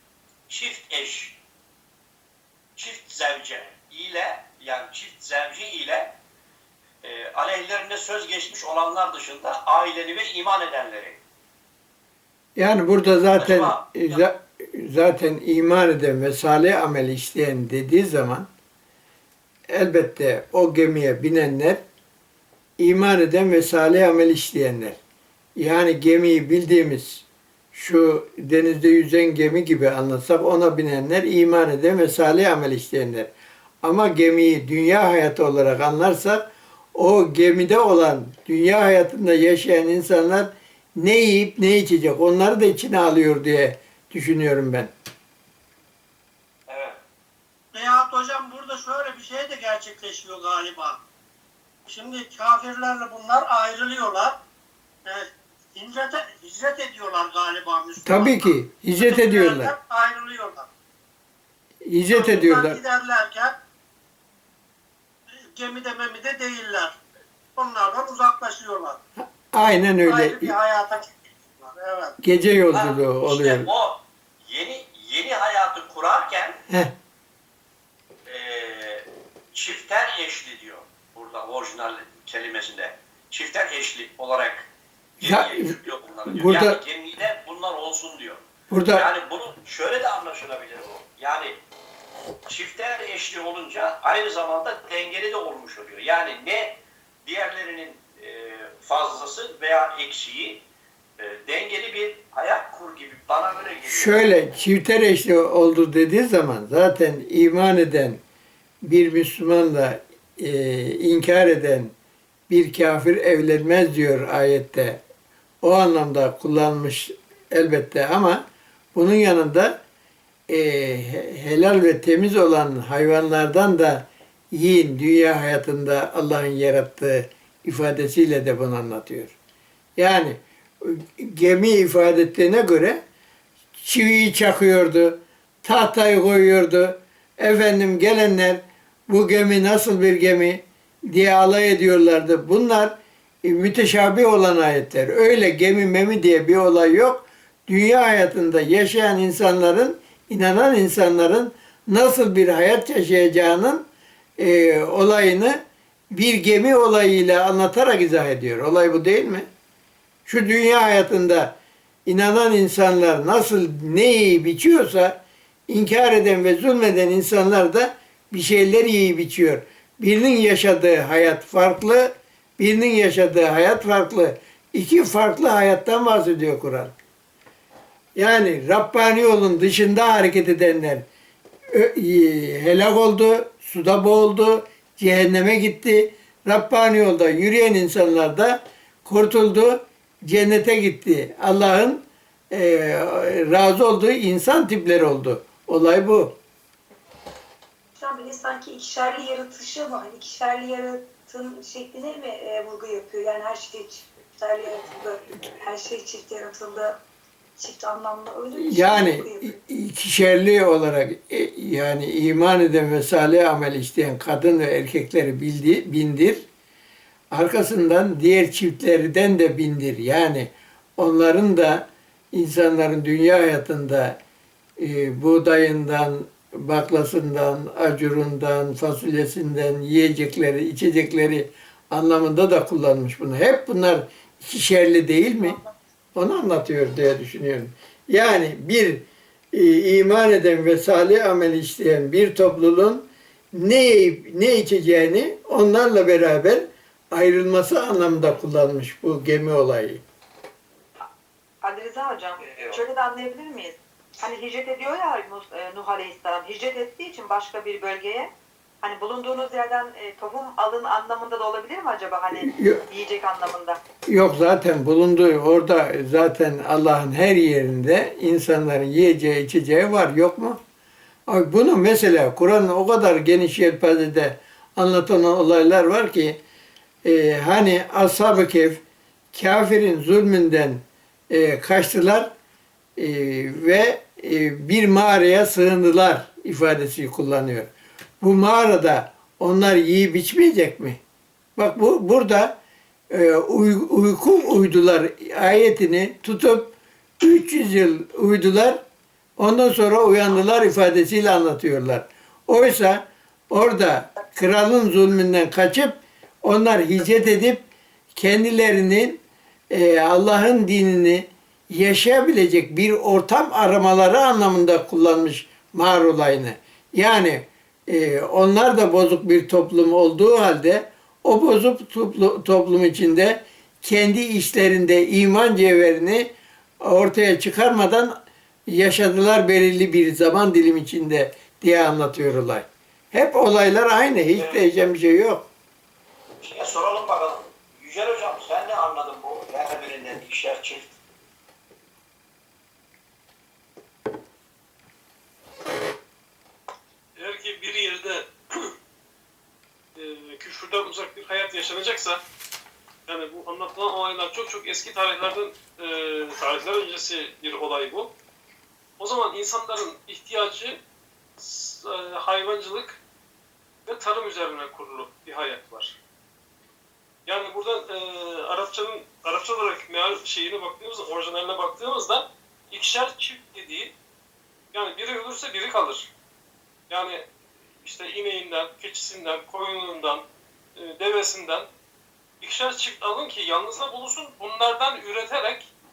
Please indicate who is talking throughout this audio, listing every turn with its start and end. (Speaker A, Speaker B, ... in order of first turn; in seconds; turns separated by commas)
Speaker A: 0.5-1.4, Speaker A: 2.7-6.2, Speaker A: 7.0-11.2, Speaker B: 12.6-18.5, Speaker A: 13.3-14.2, Speaker B: 19.7-21.8, Speaker B: 22.8-25.0, Speaker B: 25.6-33.3, Speaker B: 33.8-44.9, Speaker A: 46.7-47.0, Speaker C: 47.7-51.0, Speaker C: 51.9-54.4, Speaker C: 55.0-60.7, Speaker B: 58.0-59.7, Speaker B: 61.9-62.8, Speaker C: 62.1-63.5, Speaker C: 65.5-67.0, Speaker C: 67.5-69.0, Speaker B: 69.2-70.5, Speaker C: 70.0-72.2, Speaker B: 72.2-73.7, Speaker A: 72.7-76.6, Speaker A: 78.2-88.4, Speaker B: 85.2-86.8, Speaker B: 88.7-89.1, Speaker A: 88.9-91.6, Speaker A: 92.5-100.6, Speaker A: 101.2-104.3, Speaker B: 103.8-108.2, Speaker B: 108.8-111.9, Speaker B: 112.5-115.0, Speaker B: 115.6-118.4, Speaker B: 118.9-119.8, Speaker B: 120.5-129.3, Speaker B: 130.0-133.0, Speaker B: 133.8-153.9, Speaker B: 154.4-155.6, Speaker B: 156.1-159.5, Speaker B: 160.2-176.9, Speaker B: 178.2-181.0, Speaker B: 181.7-196.3, Speaker D: 198.0-207.0, Speaker D: 207.6-209.6, Speaker B: 208.5-216.4, Speaker B: 217.3-224.2, Speaker B: 224.8-235.6, Speaker B: 236.1-250.0, Speaker E: 251.6-258.3, Speaker A: 252.4-252.8, Speaker E: 258.8-263.8, Speaker B: 262.3-262.8, Speaker B: 264.1-270.6, Speaker B: 271.3-276.4, Speaker B: 277.0-278.8, Speaker B: 279.3-282.3, Speaker B: 283.0-291.0, Speaker B: 291.6-292.6, Speaker B: 293.1-298.8, Speaker B: 299.4-328.1, Speaker B: 328.7-335.5, Speaker A: 334.3-334.6, Speaker A: 336.4-341.0, Speaker F: 347.2-348.7, Speaker F: 349.9-352.2, Speaker F: 353.1-358.1, Speaker F: 359.0-360.8, Speaker F: 361.4-363.0, Speaker F: 363.9-365.9, Speaker F: 367.2-373.9, Speaker F: 374.7-376.1, Speaker F: 376.9-377.3, Speaker F: 377.8-380.2, Speaker F: 380.8-381.7, Speaker F: 382.4-385.7